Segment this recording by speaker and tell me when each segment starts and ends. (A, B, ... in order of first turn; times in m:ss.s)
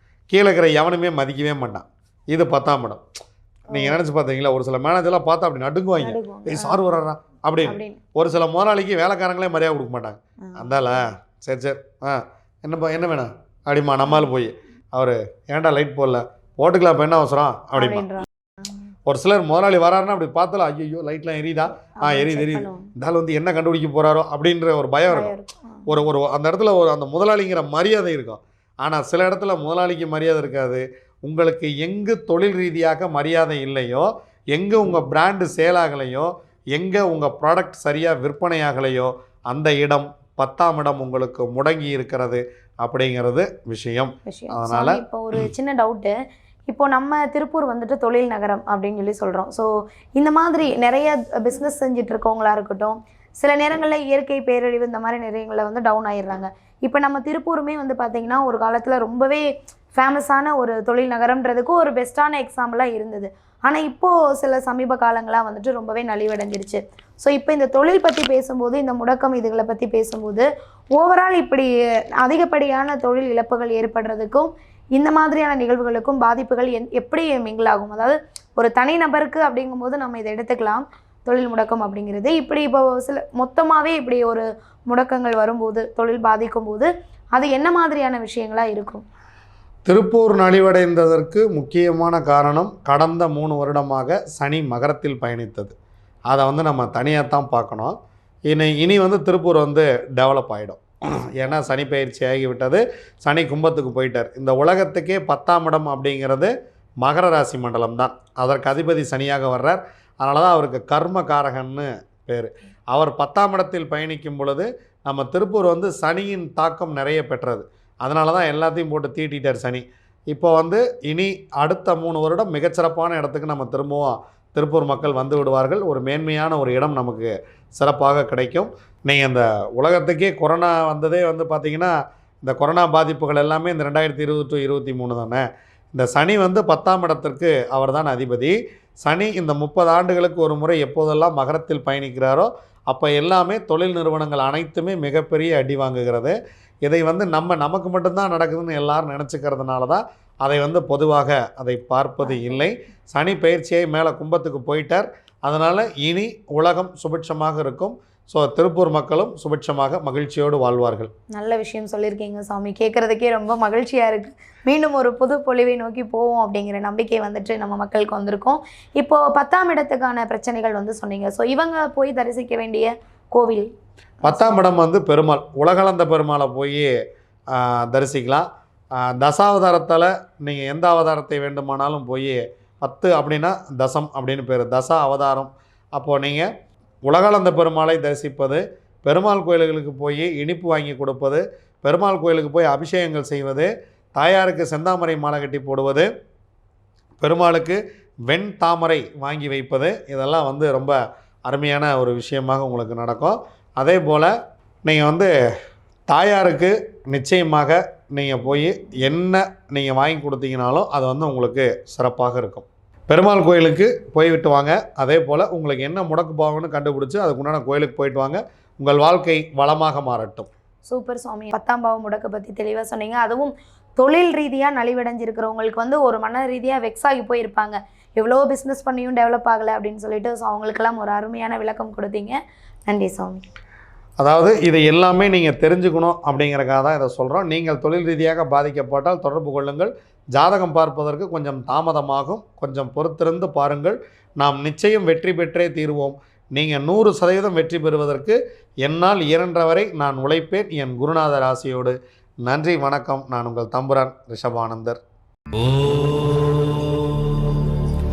0:00.3-0:03.0 A
0:03.7-0:04.0 B
0:03.7-0:18.1 A
0:06.0-0:06.9 B
0:07.6-0:08.0 B
0:10.5-0:11.0 B
0:14.0-0:14.3 B
0:17.8-0:18.9 B
0:19.1-0:25.3 A
0:22.0-0:22.9 B
0:25.1-0:26.1 B
0:25.9-0:45.4 A
0:44.2-0:46.1 B
0:46.7-1:29.0 B
1:29.9-1:35.7 A
1:36.3-1:38.0 A
1:38.5-1:40.8 A
1:41.3-2:41.1 A
2:32.2-2:32.7 B
2:41.3-2:53.7 B
2:54.2-2:54.7 B
2:54.2-2:56.9 A
2:57.5-2:58.5 A
2:59.0-3:06.5 A
3:07.0-3:16.1 A
3:17.2-3:21.0 A
3:21.5-3:24.3 A
3:24.9-3:25.3 A
3:26.1-3:40.5 A
3:40.9-3:53.4 B
3:54.2-4:15.0 A
4:15.5-4:17.9 C